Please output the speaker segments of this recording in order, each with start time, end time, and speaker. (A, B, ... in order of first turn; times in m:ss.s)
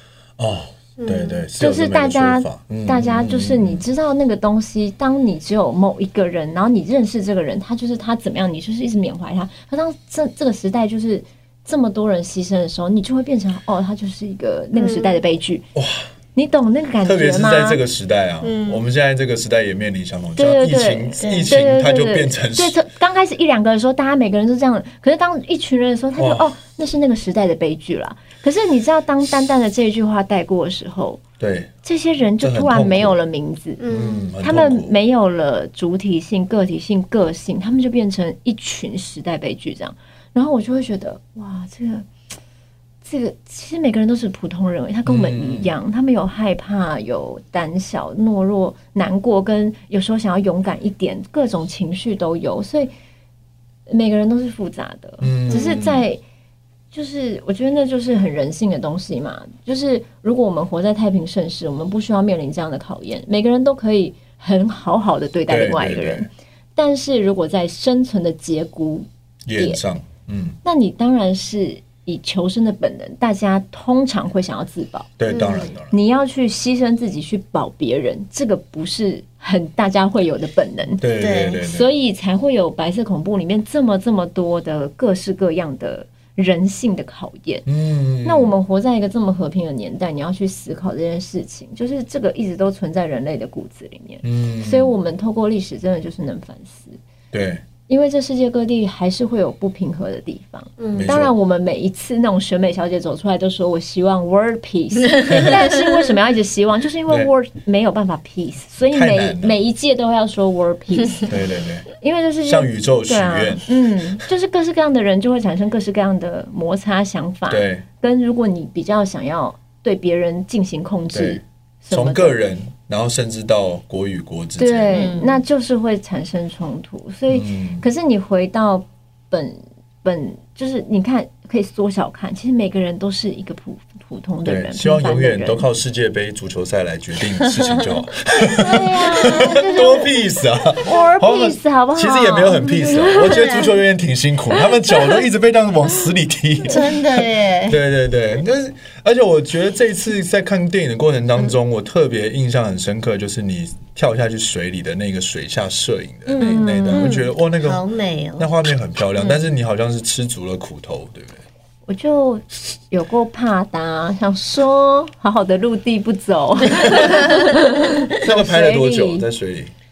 0:00.4-0:03.8 A
0:01.0-0:01.4 B
0:01.6-0:15.6 C
0:14.8-0:15.2 B
0:15.8-0:16.0 A
0:16.4-0:17.8 C
0:17.0-0:22.8 A
0:18.4-0:18.8 B
0:20.4-0:31.2 C
0:21.2-0:21.5 B
0:26.2-0:26.5 A
0:31.4-0:31.7 A
0:31.8-0:33.8 C
0:32.4-0:33.2 A
0:33.8-0:34.3 B
0:33.9-0:34.9 A
0:34.4-0:42.1 C
0:43.0-0:52.9 C
0:45.1-0:45.7 A
0:53.9-0:56.2 C
0:55.2-0:56.0 A
0:55.5-0:55.9 B
0:56.9-1:09.1 C
1:05.5-1:06.3 A
1:09.5-1:10.6 A
1:10.6-1:15.1 C
1:15.2-1:16.0 A
1:15.3-1:15.7 B
1:15.9-1:21.0 C
1:21.0-1:21.9 A
1:21.2-1:21.6 B
1:21.6-1:27.7 C
1:27.7-1:28.5 A
1:28.2-1:37.0 C
1:34.2-1:34.9 A
1:37.3-1:37.6 A
1:37.9-1:51.3 C
1:40.8-1:41.1 B
1:41.0-1:41.3 A
1:45.3-1:45.6 A
1:48.9-1:49.6 A
1:51.3-1:51.9 A
1:52.0-2:02.4 C
1:52.4-1:53.7 A
1:57.5-1:57.8 A
2:01.1-2:05.0 A
2:04.6-2:15.6 C
2:04.9-2:05.4 B
2:07.3-2:07.8 A
2:14.4-2:37.8 A
2:18.4-2:23.5 C
2:23.2-2:23.7 B
2:24.8-2:25.2 C
2:26.7-2:27.8 B
2:36.3-2:37.2 C
2:36.4-2:38.5 B
2:38.4-2:41.4 A
2:41.9-2:49.2 C
2:46.8-2:47.4 A
2:48.2-2:49.7 A